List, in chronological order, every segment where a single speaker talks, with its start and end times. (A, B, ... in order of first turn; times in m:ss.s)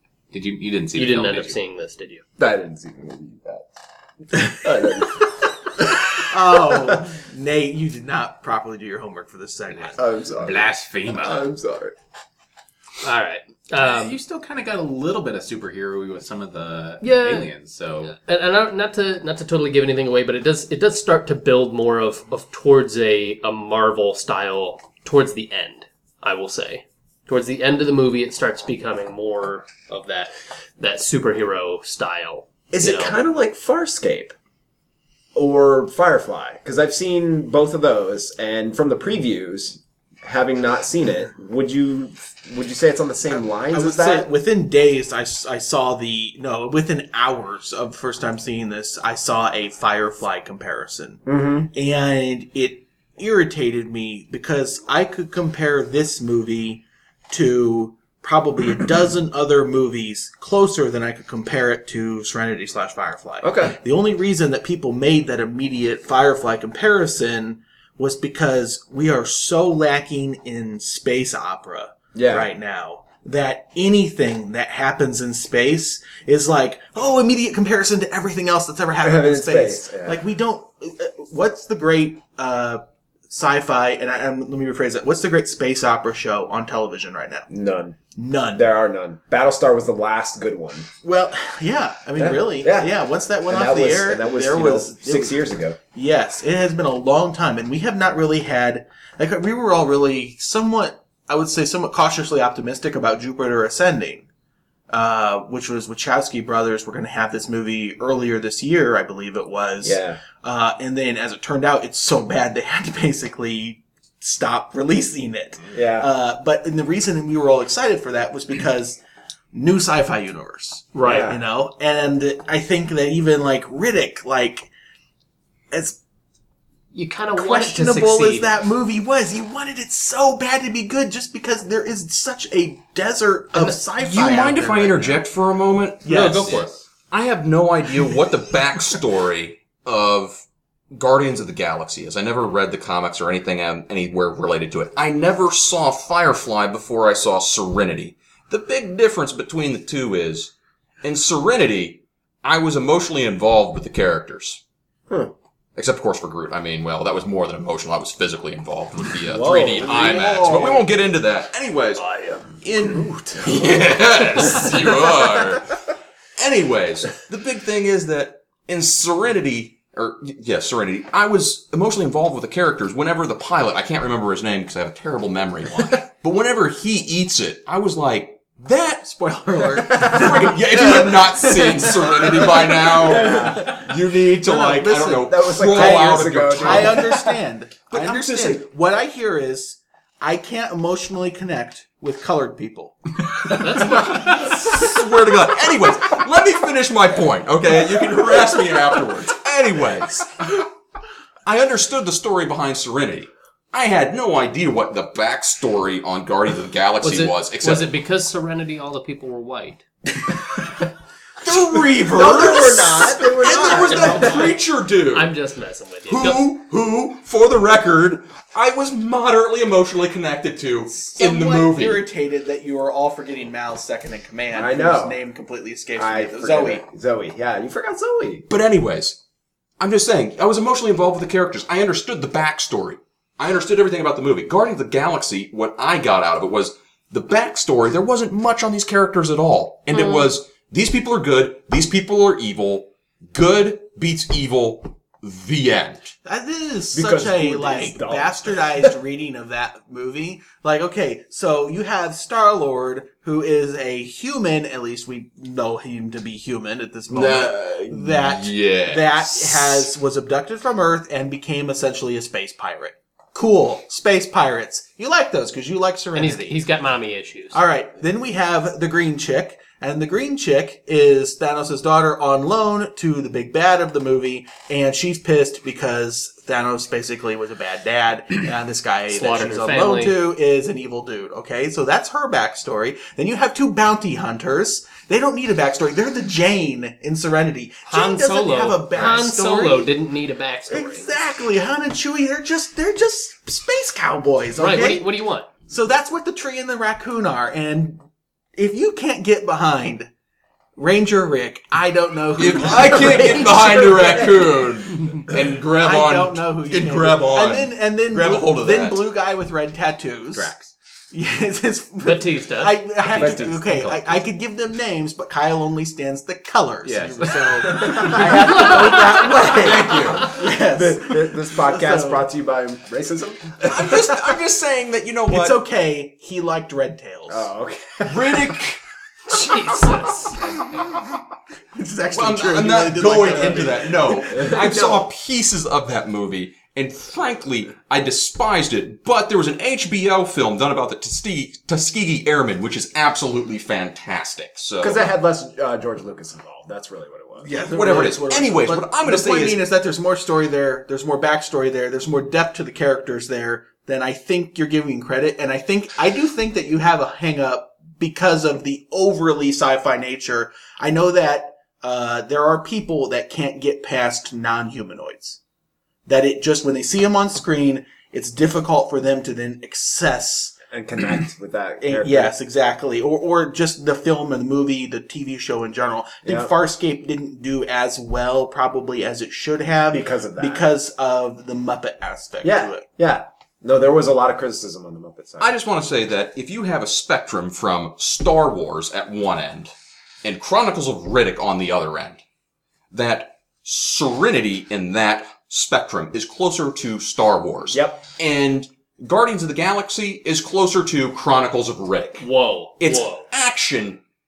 0:00.3-0:01.6 A
0:00.9-0:02.2 B
0:02.4-0:03.7 C
0:04.3-0:05.3 C
0:06.3-0:10.0 D
0:06.6-0:07.0 C
0:09.7-0:11.5 A
0:10.0-0:11.9 C
0:13.0-0:14.2 B
0:13.8-0:18.2 A
0:17.0-0:17.5 B
0:18.0-0:33.2 B
0:32.7-0:34.3 C
0:35.4-0:44.3 C
0:43.4-1:27.5 D
0:51.3-0:51.7 C
1:03.4-1:03.8 C
1:12.1-1:12.5 C
1:19.0-1:20.2 C
1:27.5-1:28.0 C
1:28.1-1:28.6 D
1:28.5-1:30.9 C
1:31.0-1:35.4 D
1:32.2-1:32.9 C
1:33.5-1:35.8 C
1:35.9-1:44.3 D
1:44.9-1:59.0 D
1:49.8-1:50.2 C
1:55.7-1:56.1 C
1:59.5-2:04.7 D
2:00.9-2:01.3 B
2:01.0-2:01.4 C
2:05.7-2:06.0 D
2:06.9-2:08.5 B
2:07.4-2:15.2 D
2:13.6-2:34.6 E
2:16.0-2:16.7 D
2:35.8-2:42.1 E
2:39.3-2:40.3 C
2:39.5-2:40.9 D
2:42.6-2:45.8 E
2:42.8-2:44.7 C
2:46.4-2:59.1 E
2:59.0-3:03.8 D
2:59.7-3:07.2 E
3:03.0-3:03.8 C
3:04.4-3:13.9 D
3:05.2-3:07.4 C
3:07.9-3:08.6 E
3:13.5-3:20.6 E
3:13.5-3:14.7 B
3:21.4-3:27.9 E
3:27.0-3:29.8 B
3:31.4-3:35.3 E
3:32.1-3:34.6 D
3:32.2-3:34.6 C
3:35.1-3:36.4 B
3:36.1-3:42.0 E
3:41.0-3:46.8 D
3:44.5-3:45.2 C
3:46.0-3:48.4 C
3:48.5-3:49.2 E
3:49.8-4:06.1 E
3:59.9-4:00.3 B
4:06.2-4:26.6 D
4:06.9-4:08.9 C
4:17.1-4:19.9 E
4:26.1-4:27.6 B
4:27.5-4:49.9 D
4:39.1-4:40.1 B
4:47.9-4:51.1 B
4:50.7-4:55.1 D
4:54.6-4:55.5 B
4:55.7-4:58.0 D
4:58.6-5:00.1 D
5:00.8-5:04.2 D
5:02.4-5:09.1 E
5:03.7-5:04.2 C
5:05.8-5:10.5 D
5:10.3-5:10.7 A
5:11.1-5:22.2 D
5:12.0-5:12.8 B
5:13.0-5:14.2 A
5:13.2-5:13.5 C
5:16.8-5:18.3 A
5:17.6-5:19.4 C
5:19.0-5:20.4 E
5:20.4-5:24.1 C
5:23.7-5:25.6 E
5:25.3-5:27.5 D
5:27.3-5:28.5 C
5:28.1-5:28.8 E
5:29.3-5:30.4 B
5:31.7-5:34.5 D
5:32.1-5:45.1 E
5:34.3-5:35.0 C
5:44.8-5:47.6 C
5:47.4-6:05.4 D
5:47.6-5:49.6 E
6:06.1-6:10.6 D
6:10.7-6:12.3 C
6:11.8-6:22.8 D
6:16.2-6:16.5 C
6:19.9-6:20.7 C
6:22.4-6:25.5 C
6:25.4-6:29.7 E
6:30.2-6:32.2 E
6:32.9-6:42.3 E
6:37.7-6:38.0 C
6:42.2-6:43.3 B
6:42.8-6:44.0 E